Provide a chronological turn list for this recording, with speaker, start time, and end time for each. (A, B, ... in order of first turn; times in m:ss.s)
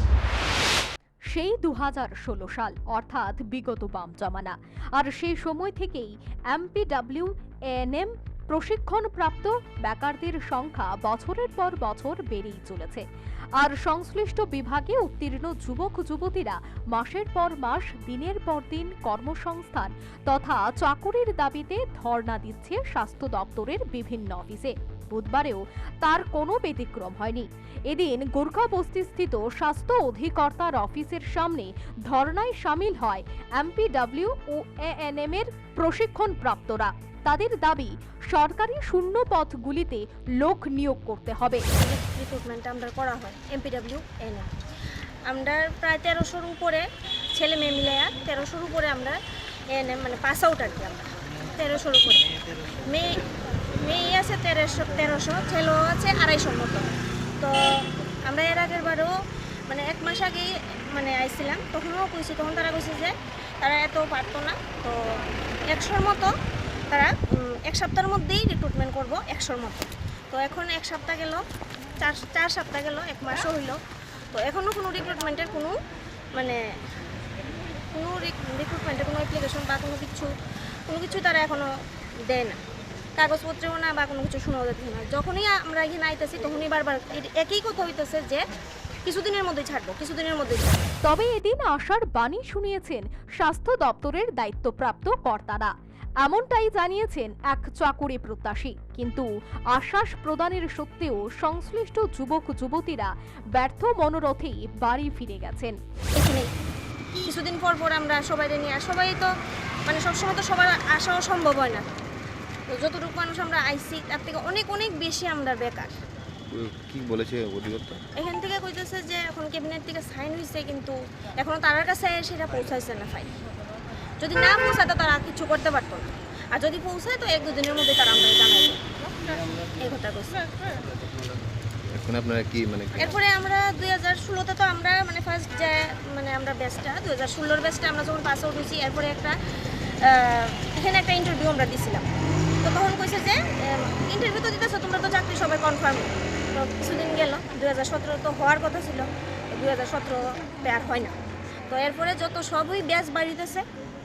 0:01.3-0:13.0 A
0:13.6-0:41.6 A
0:41.8-0:44.5 B
0:45.3-0:49.2 B
0:49.7-0:52.3 B
0:52.8-0:53.2 B
0:53.8-0:59.1 B
0:59.7-1:06.3 B
1:06.9-1:11.4 B
1:12.0-1:13.8 B
1:14.3-1:15.7 B
1:16.4-1:16.6 B
1:17.9-1:20.3 B
1:20.9-1:21.7 B
1:22.3-1:22.6 B
1:23.2-1:28.4 B
1:29.0-1:30.9 B
1:31.0-1:45.8 A
1:46.2-1:46.5 B
1:47.1-1:49.3 B
1:49.9-1:51.9 B
1:52.7-1:56.0 B
1:56.5-1:58.0 C
1:58.2-2:03.4 B
2:04.2-2:10.8 B
2:11.9-2:13.2 C
2:13.0-2:19.4 B
2:20.0-2:22.1 B
2:22.6-2:31.2 B
2:31.7-2:33.6 B